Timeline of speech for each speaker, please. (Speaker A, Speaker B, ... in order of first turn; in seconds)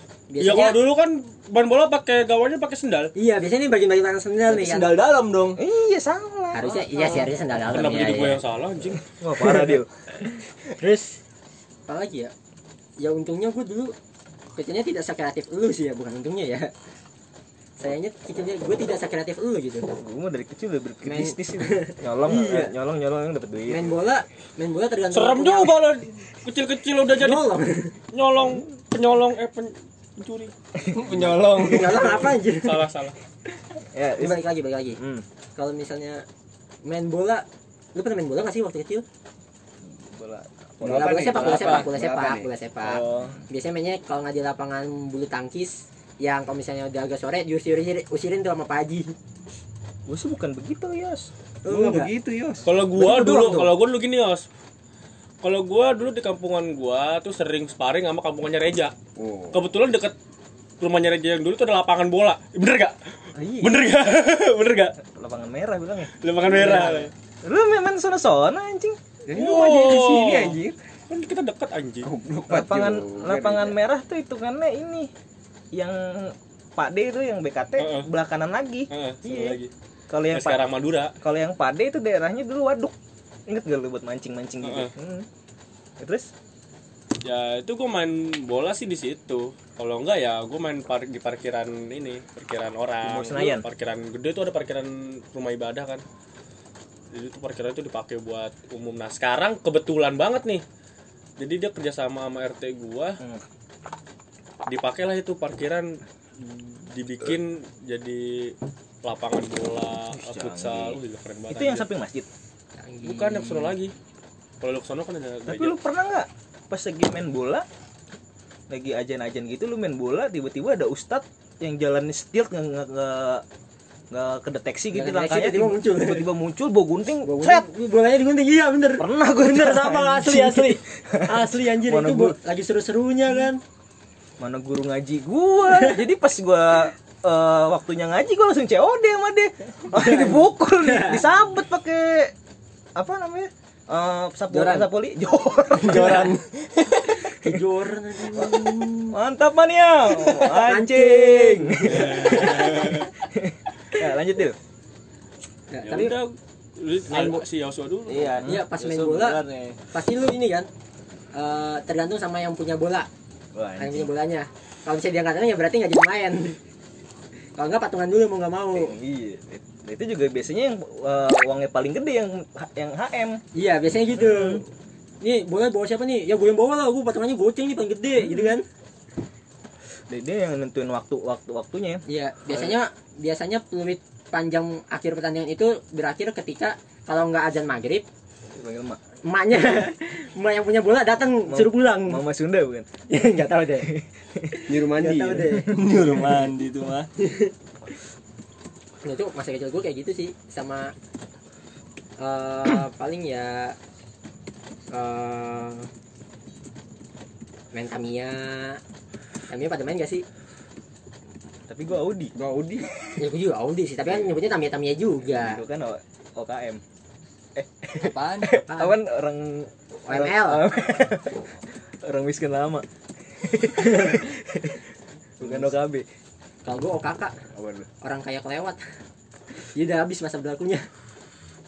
Speaker A: 0.3-0.8, 3.2-4.9, 6.5-8.4, 9.4-9.8, 10.7-11.2, 11.9-12.3, 13.0-13.9, 14.6-16.7, 17.8-19.9, 21.0-22.7, 23.7-25.7, 27.2-28.0, 31.1-32.9, 34.2-35.0, 35.6-36.3, 36.8-39.0, 40.8-49.1, 51.6-52.1, 53.0-53.7, 112.8-113.8, 124.9-126.3, 127.2-133.6, 135.7-135.9, 139.9-141.2, 145.8-146.4, 147.3-149.2, 150.3-153.1, 155.7-156.2, 157.1-157.4, 158.4-160.7, 161.3-163.1, 163.8-166.6, 167.6-168.9, 173.6-174.6, 175.2-178.6, 182.1-188.1, 189.2-192.2, 193.1-193.9, 195.0-195.7, 197.2-197.5, 199.0-200.9, 202.2-203.8, 204.9-205.9, 207.7-208.8, 209.5-210.3, 213.2-215.6, 218.7-219.0, 220.1-220.7, 226.6-227.3, 228.0-228.8, 229.6-230.9
Speaker B: 0.4-3.1, 7.7-9.1, 25.1-27.5, 28.1-30.5, 32.5-33.1, 52.6-54.5, 55.4-58.9, 59.5-60.2, 60.8-63.0, 63.6-65.0, 66.2-67.1, 69.3-70.6, 71.1-72.1, 77.8-78.1, 78.9-79.7, 80.3-81.2, 84.6-84.9, 87.2-96.0, 97.1-100.6, 101.4-103.2, 104.7-111.9, 113.0-113.9, 114.6-115.8, 151.9-153.0, 155.9-158.5
Speaker C: 4.5-5.6, 30.9-32.2, 40.8-41.9, 130.2-130.8, 144.5-144.9, 145.8-147.1, 158.6-159.8, 195.7-197.1, 218.0-218.6
Speaker D: 5.6-7.3, 9.0-10.4, 20.0-23.9, 30.8-32.2, 33.9-34.5, 35.0-35.2, 39.8-41.8, 42.8-43.4, 50.1-51.3, 63.4-63.9, 65.0-69.0, 72.5-75.1, 75.7-79.6, 80.1-80.6, 81.2-83.0, 83.5-85.3, 86.0-86.3, 93.0-93.7, 110.1-111.0, 111.5-112.3, 115.5-117.7, 118.7-123.4, 124.1-127.7, 129.0-130.4, 131.1-132.4, 134.4-142.3, 143.0-146.3, 149.1-154.6, 158.1-158.6, 163.6-164.1, 168.7-173.4, 174.2-174.6, 180.1-182.8, 188.5-189.0, 191.5-192.9, 193.8-194.7, 211.7-212.3, 215.2-216.8, 217.6-221.5, 222.0-222.8, 223.4-224.8, 225.4-226.1, 227.6-227.9
Speaker E: 40.8-42.5, 51.7-52.6, 59.2-59.6, 69.3-70.8, 72.0-73.8, 194.7-195.6, 212.3-212.9, 225.4-225.7